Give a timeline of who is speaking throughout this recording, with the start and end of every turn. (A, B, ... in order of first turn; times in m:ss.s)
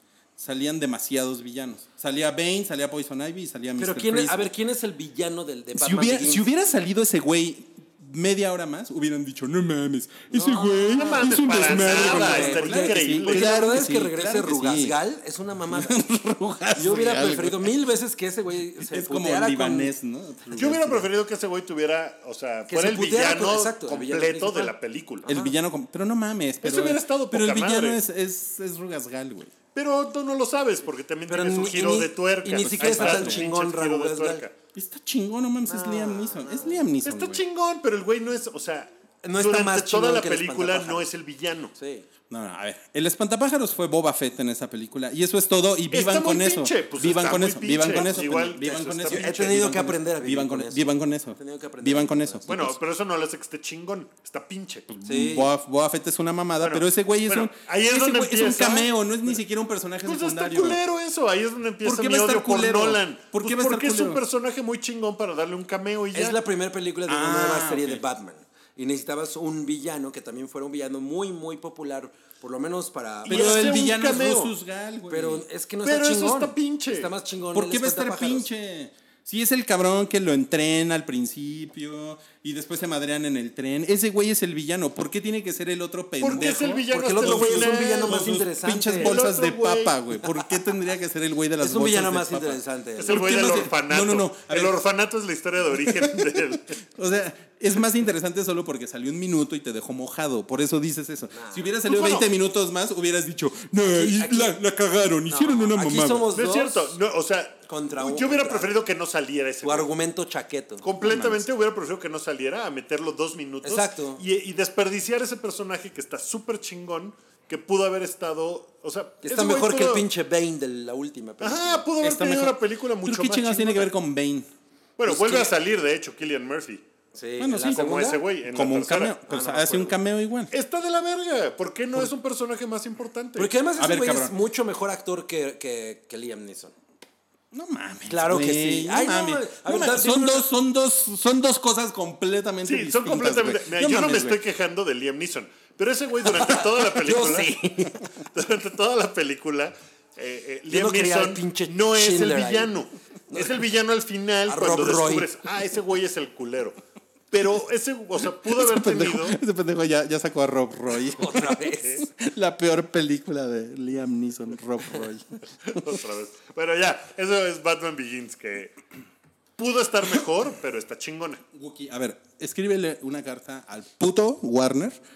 0:00.4-0:04.5 A
0:03.8-0:06.5 B
0:05.8-0:15.0 A
0:10.3-0:16.0 B
0:11.0-0:13.5 C
0:15.7-0:17.7 A
0:16.8-0:19.9 B
0:18.8-0:21.1 A
0:20.5-0:25.3 C
0:22.7-0:24.7 B
0:25.2-0:25.5 B
0:25.3-0:29.5 A
0:26.6-0:28.0 C
0:29.8-0:34.5 C
0:31.3-0:34.4 B
0:32.6-0:33.5 A
0:34.8-0:37.4 A
0:35.7-0:36.9 B
0:37.0-0:41.7 C
0:39.2-0:41.1 B
0:41.8-0:42.1 B
0:42.3-0:52.8 A
0:45.9-0:49.8 C
0:47.9-0:48.2 B
0:49.0-0:52.5 B
0:52.5-0:54.9 C
0:54.9-1:00.8 A
0:55.0-0:55.5 B
0:56.6-0:58.9 C
1:00.0-1:06.4 C
1:01.8-1:04.2 A
1:06.1-1:13.9 B
1:07.1-1:08.0 A
1:13.2-1:14.5 C
1:13.3-1:15.4 A
1:15.1-1:18.5 B
1:15.8-1:17.1 C
1:17.5-1:34.8 A
1:26.2-1:30.0 C
1:26.4-1:29.2 B
1:31.6-1:33.6 B
1:33.0-1:36.8 C
1:35.8-1:46.3 A
1:41.3-1:41.8 B
1:41.9-1:42.3 C
1:43.9-1:44.6 B
1:45.3-1:47.0 B
1:46.3-1:49.9 C
1:47.7-1:48.8 B
1:49.6-1:50.8 B
1:50.8-2:00.1 C
1:51.0-1:51.5 A
1:53.6-1:54.2 B
1:59.2-2:01.9 B
2:01.4-2:03.9 C
2:02.0-2:04.5 A
2:05.0-2:06.8 C
2:05.1-2:05.5 B
2:07.1-2:08.2 B
2:07.4-2:07.9 A
2:07.6-2:09.9 C
2:08.5-2:10.5 A
2:09.3-2:09.8 B
2:10.5-2:13.5 C
2:13.4-2:16.8 B
2:13.8-2:14.4 A
2:17.5-2:24.4 A
2:18.1-2:20.5 B
2:22.6-2:27.6 C
2:26.2-2:28.0 B
2:28.2-2:36.8 C
2:30.7-2:32.8 B
2:33.3-2:33.6 B
2:34.5-2:35.4 B
2:37.3-2:39.4 C
2:38.4-2:45.9 A
2:41.0-2:42.1 B
2:45.6-2:48.8 C
2:49.6-2:51.4 C
2:51.5-2:55.0 A